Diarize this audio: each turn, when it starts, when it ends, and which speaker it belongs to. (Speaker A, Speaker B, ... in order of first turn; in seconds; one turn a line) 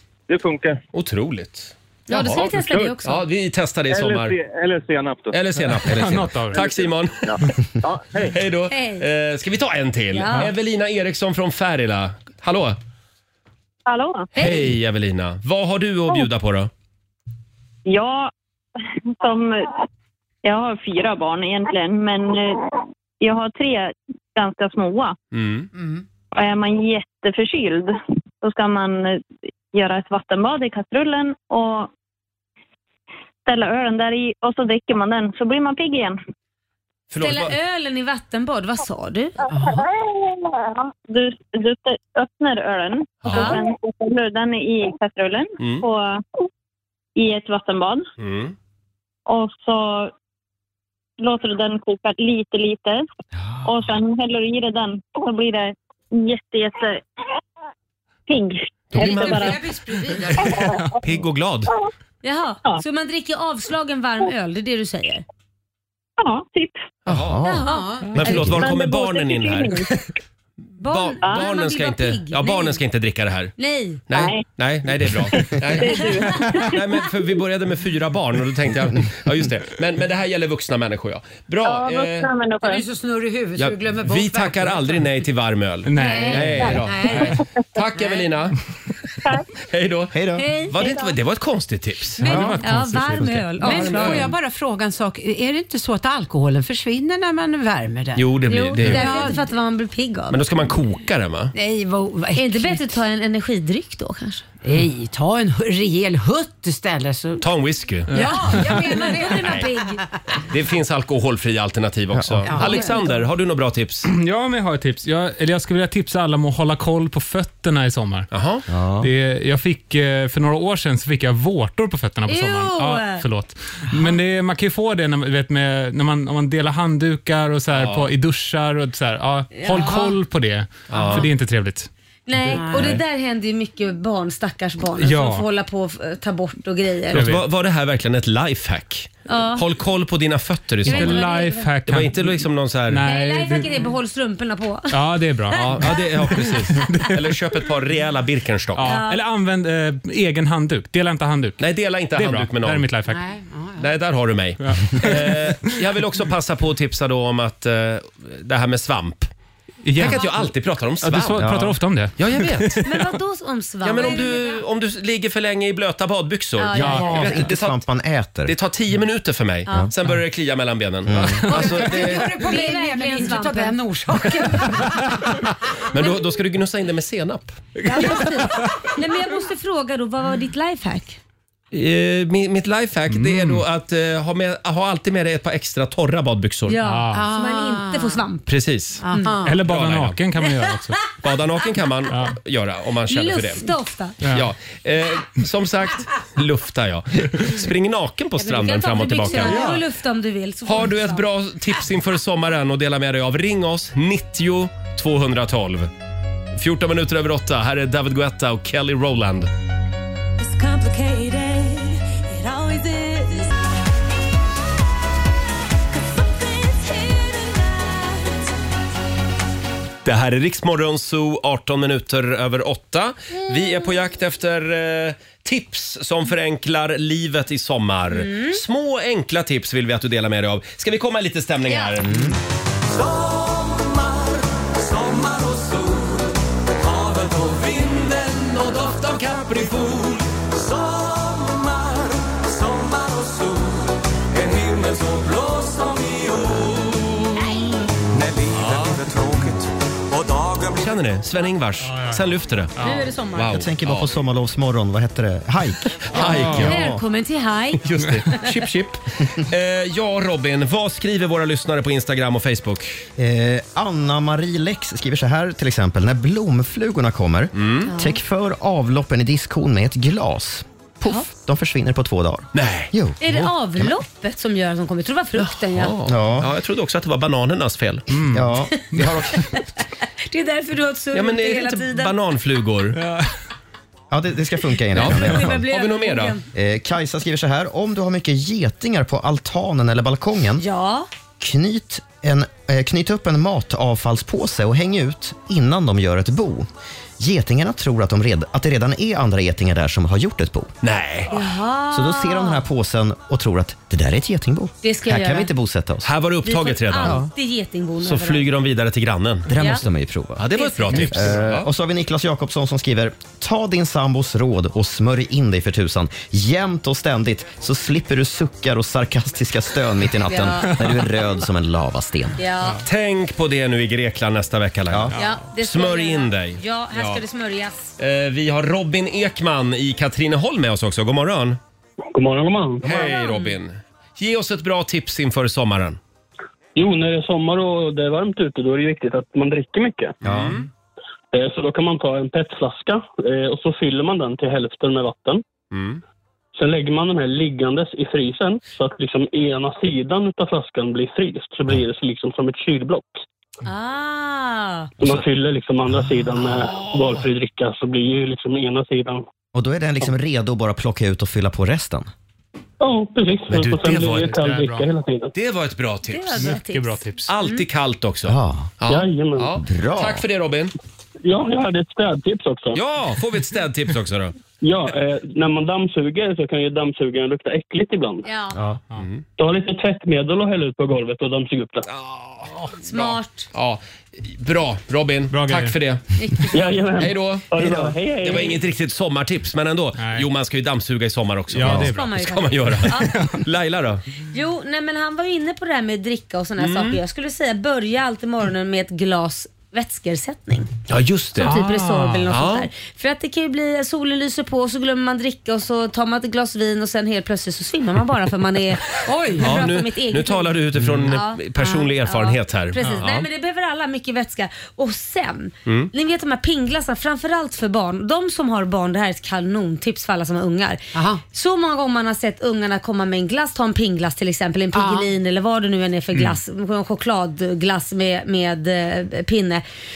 Speaker A: 0.3-0.8
Speaker B: 0.9-2.5
Speaker C: 2.1-3.2
Speaker A: 2.3-3.0
Speaker B: 3.0-4.4
Speaker A: 3.9-5.4
Speaker B: 5.3-7.3
Speaker D: 5.9-6.6
Speaker A: 6.5-8.4
Speaker B: 8.2-12.8
Speaker C: 8.7-9.1
Speaker C: 10.1-10.5
Speaker E: 13.9-14.3
Speaker B: 14.4-16.7
Speaker C: 14.4-14.6
Speaker E: 17.9-18.3
Speaker E: 19.2-19.7
Speaker E: 20.4-25.1
Speaker B: 25.3-25.7
Speaker E: 26.3-31.9
Speaker E: 33.5-36.2
Speaker B: 37.1-37.5
Speaker C: 37.2-39.4
Speaker F: 39.5-39.9
Speaker E: 41.1-46.2
Speaker C: 43.3-43.6
Speaker B: 45.6-45.9
Speaker E: 47.2-48.1
Speaker B: 48.2-48.5
Speaker E: 49.3-50.1
Speaker E: 51.2-53.1
Speaker E: 53.6-57.0
Speaker E: 58.3-59.6
Speaker F: 59.0-60.6
Speaker B: 59.0-59.6
Speaker B: 61.0-61.7
Speaker C: 62.2-65.2
Speaker E: 66.2-66.8
Speaker B: 67.1-67.4
Speaker G: 67.1-67.7
Speaker C: 67.4-68.5
Speaker F: 67.7-68.3
Speaker B: 68.2-69.9
Speaker E: 68.6-69.9
Speaker C: 70.8-72.8
Speaker B: 70.9-73.5
Speaker C: 73.6-74.0
Speaker B: 74.1-82.3
Speaker E: 74.1-74.5
Speaker E: 75.8-76.3
Speaker E: 81.6-82.8
Speaker F: 82.6-85.0
Speaker B: 83.6-88.6
Speaker D: 85.9-87.3
Speaker F: 86.0-87.4
Speaker C: 86.0-86.4
Speaker B: 89.6-90.2
Speaker G: 90.1-90.5
Speaker C: 90.4-90.9
Speaker B: 90.7-92.2
Speaker C: 92.2-94.3
Speaker D: 92.2-94.3
Speaker F: 93.6-99.4
Speaker B: 94.0-94.2
Speaker B: 98.2-99.3
Speaker C: 98.5-100.4
Speaker B: 100.3-101.5
Speaker F: 101.5-102.9
Speaker C: 102.3-104.4
Speaker F: 104.6-107.4
Speaker B: 107.4-108.1
Speaker D: 108.1-108.6
Speaker F: 108.1-109.7
Speaker C: 108.2-110.0
Speaker B: 110.5-114.1
Speaker G: 112.1-112.5
Speaker F: 112.5-113.2
Speaker D: 114.0-118.3
Speaker B: 118.3-118.7
Speaker G: 118.7-119.1
Speaker D: 119.0-131.9
Speaker C: 122.3-123.2
Speaker B: 127.7-128.1
Speaker C: 129.5-130.0
Speaker F: 129.8-130.2
Speaker B: 130.9-131.3
Speaker F: 130.9-131.3
Speaker C: 132.3-137.3
Speaker F: 132.6-133.0
Speaker D: 135.0-135.5
Speaker D: 137.1-137.4
Speaker B: 137.1-141.2
Speaker C: 139.3-139.7
Speaker D: 140.8-143.8
Speaker C: 140.9-141.7
Speaker B: 141.9-143.0
Speaker C: 143.0-146.9
Speaker D: 144.9-147.2
Speaker B: 145.6-148.9
Speaker D: 148.8-151.6
Speaker C: 148.8-149.2
Speaker B: 151.6-152.9
Speaker D: 152.1-153.2
Speaker F: 153.1-153.9
Speaker B: 153.8-159.3
Speaker D: 154.6-155.6
Speaker D: 159.8-160.4
Speaker B: 160.0-161.5
Speaker D: 161.0-162.9
Speaker G: 161.4-161.7
Speaker B: 162.2-162.8
Speaker C: 162.8-164.4
Speaker B: 163.8-167.8
Speaker F: 164.0-164.6
Speaker C: 166.6-167.2
Speaker D: 166.8-167.2
Speaker G: 166.8-168.5
Speaker B: 168.5-172.3
Speaker G: 171.1-171.4
Speaker D: 171.4-171.7
Speaker F: 171.5-175.3
Speaker C: 171.6-173.8
Speaker B: 175.9-177.7
Speaker C: 177.8-181.2
Speaker D: 177.8-178.7
Speaker B: 181.7-186.8
Speaker D: 183.1-183.6
Speaker C: 186.7-188.5
Speaker D: 186.8-187.3
Speaker F: 187.1-188.2
Speaker B: 188.5-189.0
Speaker F: 189.0-189.6
Speaker D: 189.4-191.2
Speaker B: 189.7-190.2
Speaker B: 191.2-193.7
Speaker D: 192.1-192.4
Speaker C: 193.1-194.2
Speaker B: 194.3-199.8
Speaker C: 198.4-201.2
Speaker B: 200.7-205.9
Speaker B: 206.6-209.5
Speaker H: 210.4-213.5
Speaker H: 216.0-218.5
Speaker B: 220.1-232.3
Speaker C: 228.1-228.6
Speaker C: 231.7-231.9
Speaker G: 232.0-232.4
Speaker I: 232.9-238.6
Speaker B: 238.1-240.3
Speaker I: 240.5-247.2
Speaker I: 248.1-250.9
Speaker B: 248.6-249.0
Speaker B: 250.7-252.7
Speaker D: 251.8-252.2
Speaker D: 252.8-253.1
Speaker C: 252.8-253.6
Speaker B: 253.3-254.1
Speaker G: 253.5-257.0
Speaker B: 256.1-256.8
Speaker D: 256.2-256.8
Speaker C: 256.5-257.8
Speaker B: 257.8-263.0
Speaker G: 263.2-273.2
Speaker B: 267.6-267.9
Speaker C: 267.9-268.2
Speaker B: 272.5-272.9
Speaker C: 273.2-275.9
Speaker B: 275.4-278.1
Speaker G: 276.1-276.5
Speaker D: 278.1-279.2
Speaker G: 278.3-279.6
Speaker C: 279.0-279.6
Speaker C: 280.2-282.1
Speaker B: 281.1-283.0
Speaker G: 284.1-285.6
Speaker B: 284.9-286.4
Speaker C: 284.9-286.4
Speaker G: 286.5-290.6
Speaker C: 290.6-291.1
Speaker G: 291.4-296.7
Speaker G: 297.2-300.7
Speaker B: 300.8-301.3
Speaker C: 301.3-302.6
Speaker G: 301.9-306.1
Speaker C: 304.8-305.5
Speaker B: 306.0-307.3
Speaker C: 306.4-308.5
Speaker G: 307.0-307.3
Speaker B: 308.0-309.5
Speaker G: 309.5-322.4
Speaker C: 309.5-309.8
Speaker B: 310.4-311.7
Speaker C: 310.5-311.3
Speaker C: 320.3-320.8
Speaker C: 322.4-322.8
Speaker B: 322.9-327.2
Speaker C: 325.2-327.9
Speaker B: 328.0-331.6
Speaker J: 332.1-332.9
Speaker B: 332.8-336.0
Speaker C: 332.9-333.6
Speaker J: 336.8-340.2
Speaker G: 340.2-340.6
Speaker B: 340.2-340.7
Speaker J: 341.3-345.4
Speaker B: 345.7-346.0
Speaker J: 346.6-353.2
Speaker C: 353.6-354.9
Speaker J: 355.0-359.2
Speaker B: 356.5-357.3
Speaker G: 359.5-362.1
Speaker J: 362.8-365.3
Speaker B: 363.5-364.3
Speaker D: 363.6-364.9
Speaker B: 365.3-366.5
Speaker C: 366.1-367.6
Speaker D: 366.4-367.3
Speaker B: 367.3-370.7
Speaker G: 368.3-368.7
Speaker J: 368.9-369.5
Speaker G: 369.6-370.2
Speaker J: 371.2-372.8
Speaker B: 372.7-374.4
Speaker J: 374.6-378.3
Speaker C: 378.2-378.6
Speaker G: 378.6-378.8
Speaker B: 379.0-379.2
Speaker J: 379.4-381.9
Speaker B: 381.9-386.0
Speaker C: 382.8-383.5
Speaker D: 385.3-385.8
Speaker C: 386.2-386.6
Speaker J: 386.5-388.6
Speaker B: 387.0-394.0
Speaker D: 390.0-390.3
Speaker D: 391.5-392.1
Speaker C: 391.6-393.3
Speaker D: 392.9-393.4
Speaker C: 394.3-400.7
Speaker B: 396.6-397.0
Speaker B: 400.9-401.6
Speaker C: 401.4-411.4
Speaker D: 401.4-402.3
Speaker B: 402.3-402.7
Speaker F: 409.1-409.6
Speaker B: 409.4-413.3
Speaker F: 411.6-411.9
Speaker C: 412.0-429.6
Speaker F: 420.9-421.2
Speaker F: 424.7-425.1